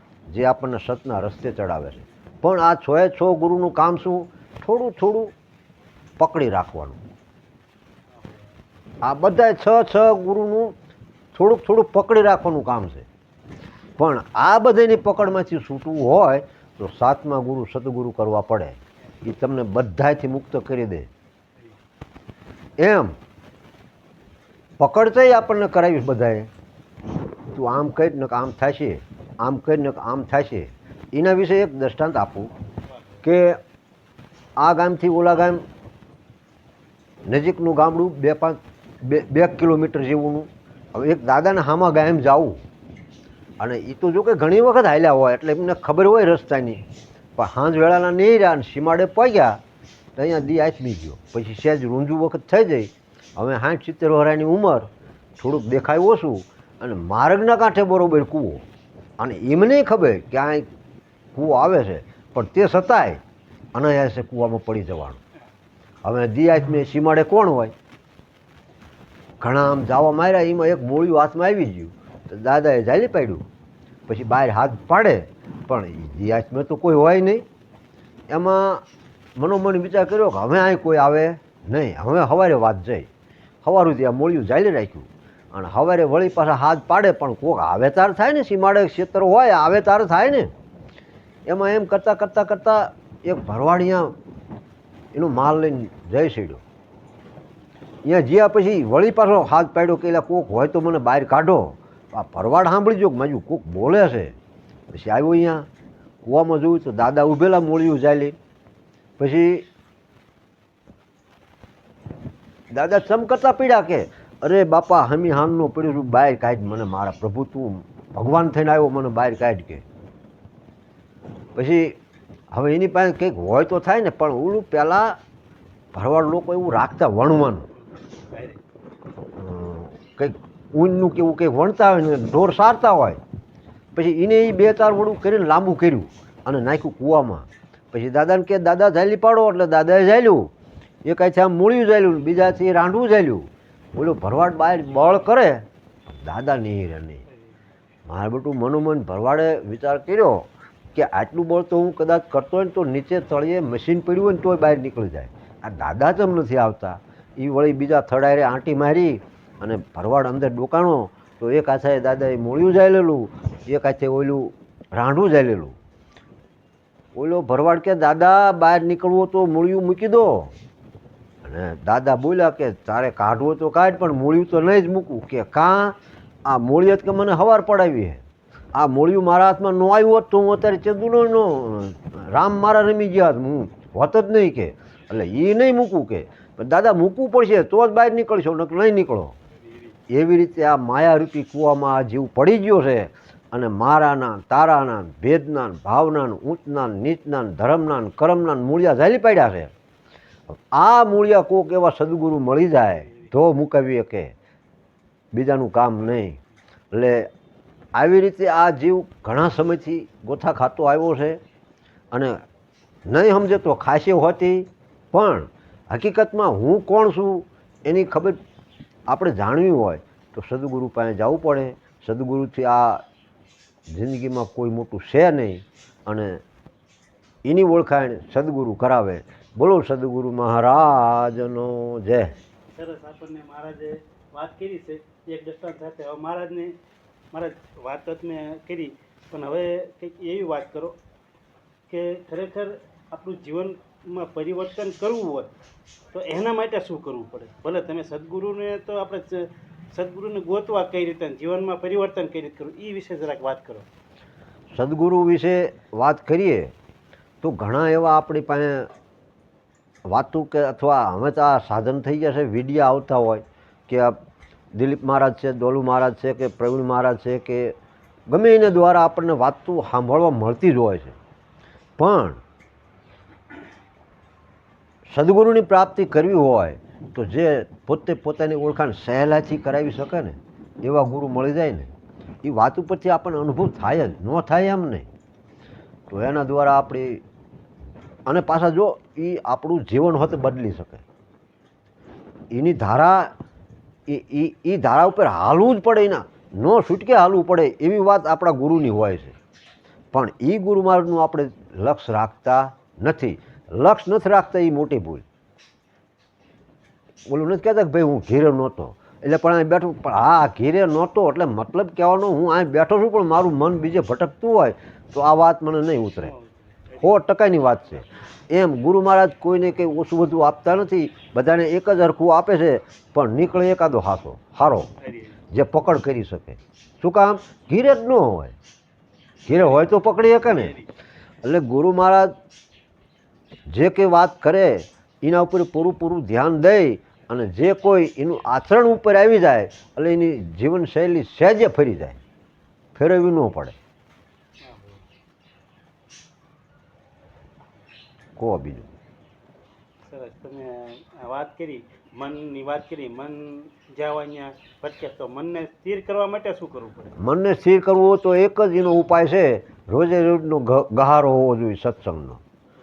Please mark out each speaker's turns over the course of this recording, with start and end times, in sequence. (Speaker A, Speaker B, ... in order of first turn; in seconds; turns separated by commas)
Speaker A: 0.3-5.3, Speaker A: 6.2-7.0, Speaker B: 8.2-8.5, Speaker A: 9.0-10.7, Speaker A: 11.3-13.1, Speaker A: 14.0-21.1, Speaker A: 22.8-23.1, Speaker A: 24.8-26.5, Speaker A: 27.5-32.5, Speaker A: 33.2-33.6, Speaker A: 34.6-35.6, Speaker A: 37.3-42.6, Speaker A: 43.6-46.8, Speaker A: 47.4-49.6, Speaker A: 50.2-58.6, Speaker A: 59.2-60.7, Speaker A: 61.3-63.2, Speaker A: 63.8-65.2, Speaker A: 66.0-67.7, Speaker A: 69.4-73.4, Speaker A: 74.1-77.5, Speaker A: 78.3-78.8, Speaker A: 79.4-83.1, Speaker A: 83.6-90.5, Speaker A: 91.5-94.2, Speaker A: 95.1-96.6, Speaker A: 98.0-104.3, Speaker A: 104.9-105.7, Speaker A: 106.2-108.4, Speaker A: 109.2-109.7, Speaker A: 112.7-119.8, Speaker A: 121.6-122.0, Speaker A: 122.5-125.2, Speaker A: 125.9-127.7, Speaker B: 128.3-128.6, Speaker A: 129.4-133.2, Speaker A: 133.9-140.5, Speaker A: 141.0-147.2, Speaker A: 148.1-165.8, Speaker A: 167.2-170.5, Speaker A: 171.4-178.2, Speaker A: 178.7-189.3, Speaker A: 190.1-199.7, Speaker A: 200.7-204.3, Speaker B: 202.9-203.3, Speaker A: 205.3-206.4, Speaker A: 206.9-207.3, Speaker A: 207.9-211.4, Speaker A: 212.1-212.4, Speaker A: 213.1-218.4, Speaker A: 219.1-223.0, Speaker A: 223.9-226.4, Speaker A: 227.4-232.3, Speaker B: 232.7-236.8, Speaker B: 237.3-241.0, Speaker B: 241.9-245.5, Speaker B: 246.1-253.9, Speaker A: 254.8-256.7, Speaker A: 257.4-258.9, Speaker A: 260.1-264.2, Speaker A: 264.7-267.8, Speaker A: 268.3-271.2, Speaker A: 272.0-272.4, Speaker A: 275.1-281.9, Speaker A: 282.4-285.1, Speaker A: 286.1-287.2, Speaker A: 288.3-291.1, Speaker A: 292.5-293.3, Speaker A: 294.1-299.4, Speaker A: 300.1-305.2, Speaker A: 307.3-316.3, Speaker B: 316.2-317.2, Speaker A: 317.0-324.9, Speaker B: 325.0-325.4, Speaker A: 325.5-328.6, Speaker A: 329.5-330.8, Speaker B: 329.5-329.9, Speaker B: 330.4-330.9, Speaker A: 331.4-332.3, Speaker A: 333.7-342.2, Speaker A: 342.9-343.8, Speaker B: 344.6-345.1, Speaker A: 348.4-348.9, Speaker B: 350.1-357.2, Speaker A: 357.2-362.4